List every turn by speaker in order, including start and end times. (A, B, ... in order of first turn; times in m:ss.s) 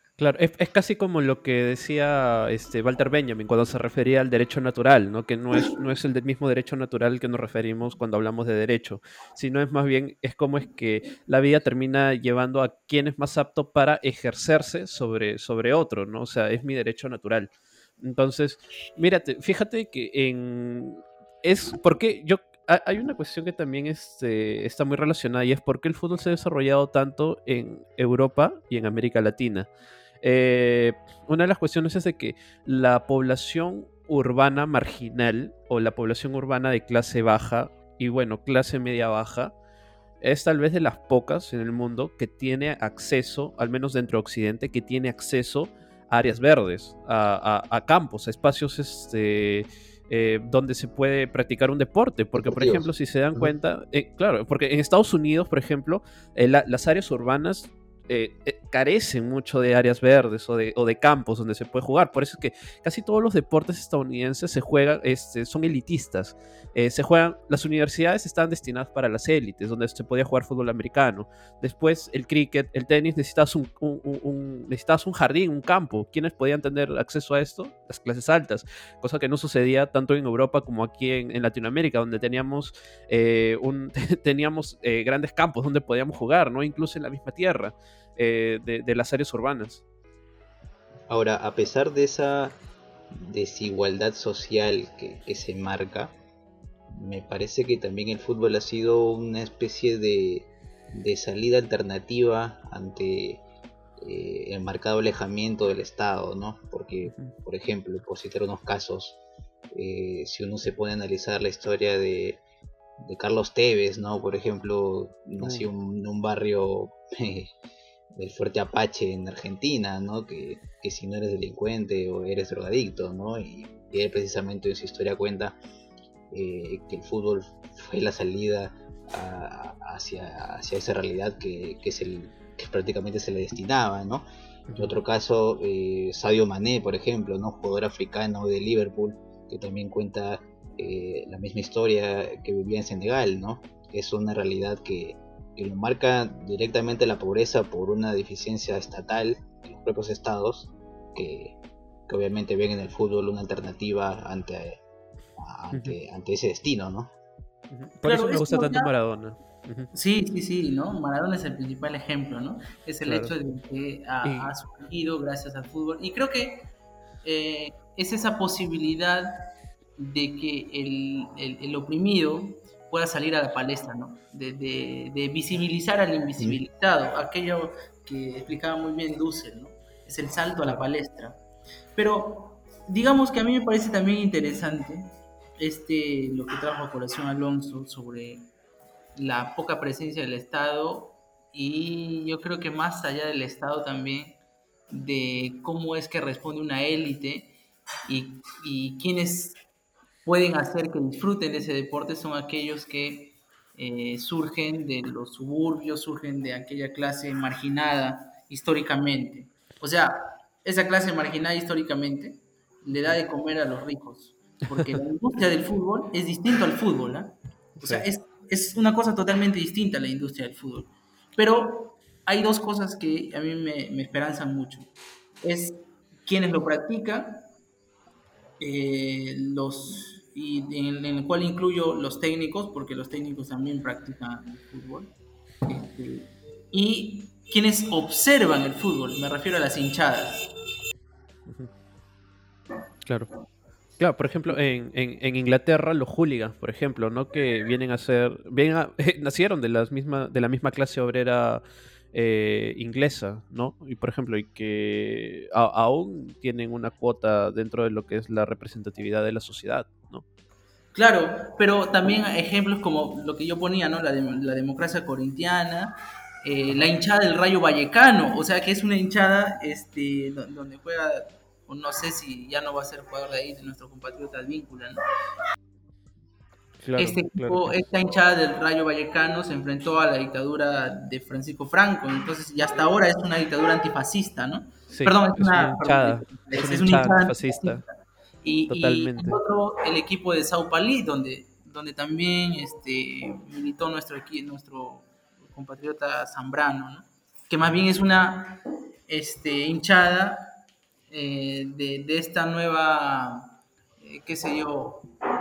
0:00.2-0:29.7 A
0:30.2-0:39.5 A
0:40.2-1:29.8 A
0:52.3-0:53.5 B
1:31.1-1:32.6 B
1:33.1-1:36.1 B
1:36.9-1:43.4 B
1:44.0-1:49.2 B
1:47.1-1:47.3 A
1:49.7-1:52.4 B
1:53.0-1:57.5 B
1:55.4-1:55.7 A
1:58.1-2:05.6 B
2:06.3-2:34.8 B
2:14.7-2:14.9 A
2:35.4-2:37.1 B
2:37.7-2:39.9 A
2:38.0-2:38.9 C
2:39.9-2:46.7 C
2:43.0-2:43.4 A
2:44.2-2:44.5 A
2:47.2-3:01.4 C
3:02.0-3:08.5 C
3:09.2-3:14.4 C
3:14.9-3:17.5 C
3:18.1-3:19.6 C
3:20.2-3:44.9 C
3:34.7-3:35.0 A
3:37.8-3:38.1 A
3:45.4-3:47.5 C
3:48.6-3:55.1 C
3:55.6-4:00.5 C
4:04.0-4:20.2 A
4:20.9-4:35.0 C
4:36.8-4:37.8 A
4:37.0-4:47.9 C
4:44.9-4:47.8 A
4:48.4-5:00.5 C
4:48.7-4:49.4 A
5:01.1-5:05.1 C